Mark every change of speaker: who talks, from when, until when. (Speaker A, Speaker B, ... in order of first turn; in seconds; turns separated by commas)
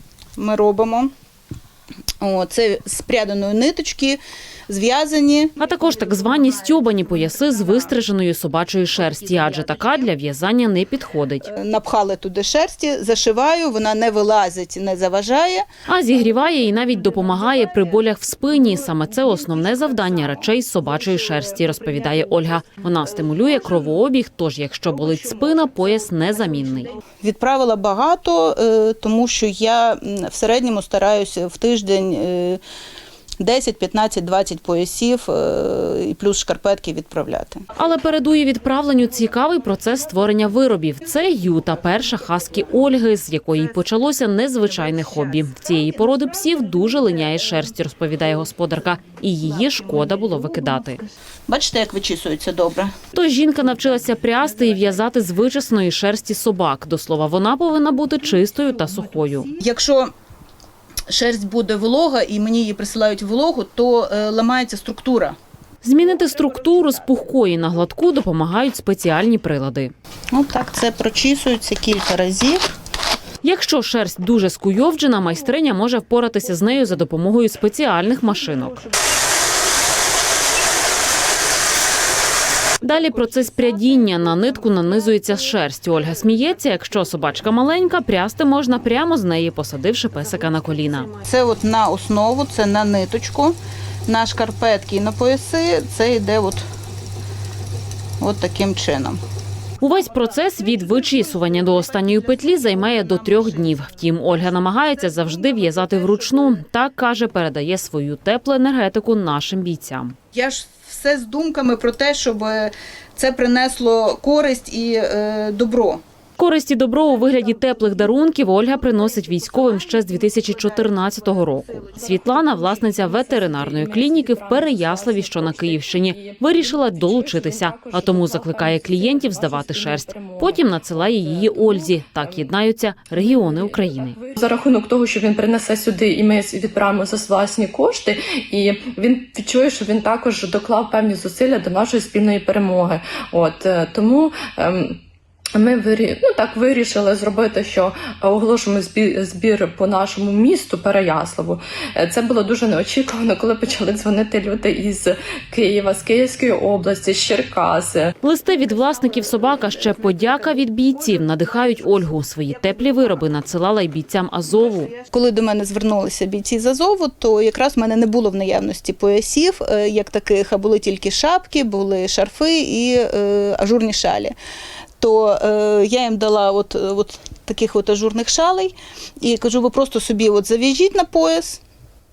Speaker A: 0.4-1.1, Speaker A: 2.2-5.6, Speaker B: 5.6-11.5, Speaker A: 11.4-15.7, Speaker B: 15.9-26.9, Speaker A: 27.2-32.6, Speaker A: 33.4-37.6, Speaker B: 37.8-51.0, Speaker A: 51.5-52.9, Speaker B: 53.1-59.5, Speaker A: 59.6-60.1, Speaker A: 61.1-65.4, Speaker B: 65.8-69.9, Speaker A: 70.3-72.7, Speaker B: 73.4-78.8, Speaker B: 82.8-91.1, Speaker A: 91.2-96.7, Speaker A: 98.2-99.2, Speaker B: 99.8-110.2, Speaker A: 101.7-103.8, Speaker A: 110.3-116.0, Speaker B: 116.4-134.2, Speaker A: 120.0-122.3, Speaker C: 122.8-132.5, Speaker C: 133.1-145.0, Speaker C: 145.5-158.2, Speaker B: 158.2-164.9, Speaker A: 165.1-174.3, Speaker A: 175.0-181.6